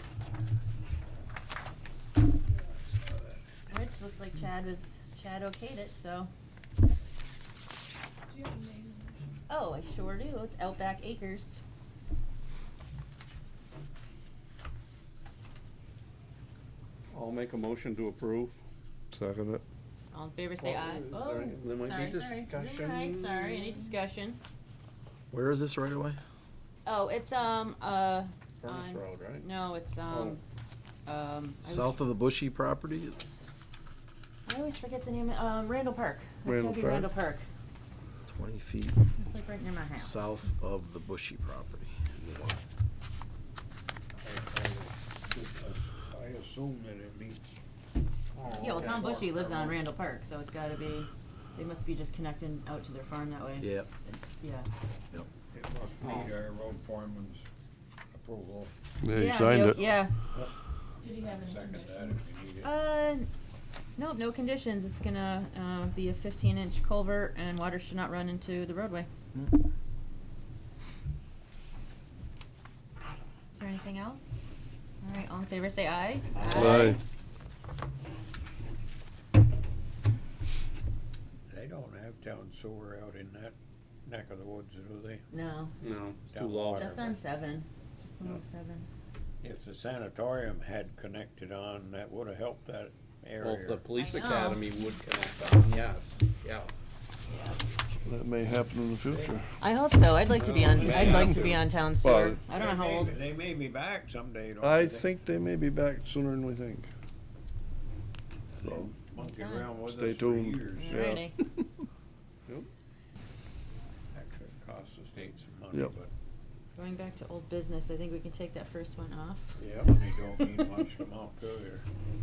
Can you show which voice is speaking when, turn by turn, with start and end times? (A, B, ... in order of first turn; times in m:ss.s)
0:03.7-0:06.3 A
0:09.5-0:11.6 A
0:17.1-0:18.6 B
0:19.1-0:19.6 C
0:20.1-0:24.4 A
0:20.6-0:23.8 B
0:25.3-0:26.2 D
0:26.9-0:30.4 A
0:28.6-0:29.4 B
0:30.1-0:30.4 B
0:31.1-0:32.0 A
0:31.6-0:33.2 D
0:34.5-0:37.5 A
0:36.4-0:37.1 C
0:38.3-0:39.0 D
0:39.2-0:40.2 A
0:40.0-0:42.0 D
0:44.2-0:47.6 E
0:48.4-0:49.8 E
0:48.4-0:49.0 B
0:48.6-0:54.7 A
0:53.6-0:53.9 D
0:55.5-0:57.5 E
0:56.0-0:56.3 B
0:58.1-0:58.7 E
0:59.0-0:59.8 C
0:59.1-1:00.2 A
0:59.9-1:00.5 E
1:01.0-1:03.3 A
1:01.0-1:02.7 E
1:04.0-1:09.1 A
1:13.5-1:14.4 A
1:15.0-1:17.0 A
1:16.5-1:17.0 C
1:21.5-1:25.2 E
1:25.3-1:25.7 A
1:25.8-1:27.1 B
1:26.3-1:27.2 E
1:26.8-1:28.9 A
1:29.4-1:33.9 E
1:33.4-1:36.7 B
1:33.9-1:34.9 A
1:37.3-1:37.6 A
1:38.0-1:39.4 C
1:39.1-1:39.4 E
1:39.6-1:43.2 A
1:40.4-1:41.6 E
1:40.4-1:41.2 B
1:40.8-1:41.5 C
1:42.0-1:42.5 C
1:42.5-1:45.1 E
1:44.6-1:46.9 C
1:48.5-1:51.1 E
1:48.6-1:48.9 C
1:49.2-1:49.7 A
1:49.8-1:51.2 C
1:50.8-1:51.4 A
1:54.1-1:56.1 E
1:56.8-1:59.5 A
1:59.6-2:01.8 E
2:00.4-2:00.8 A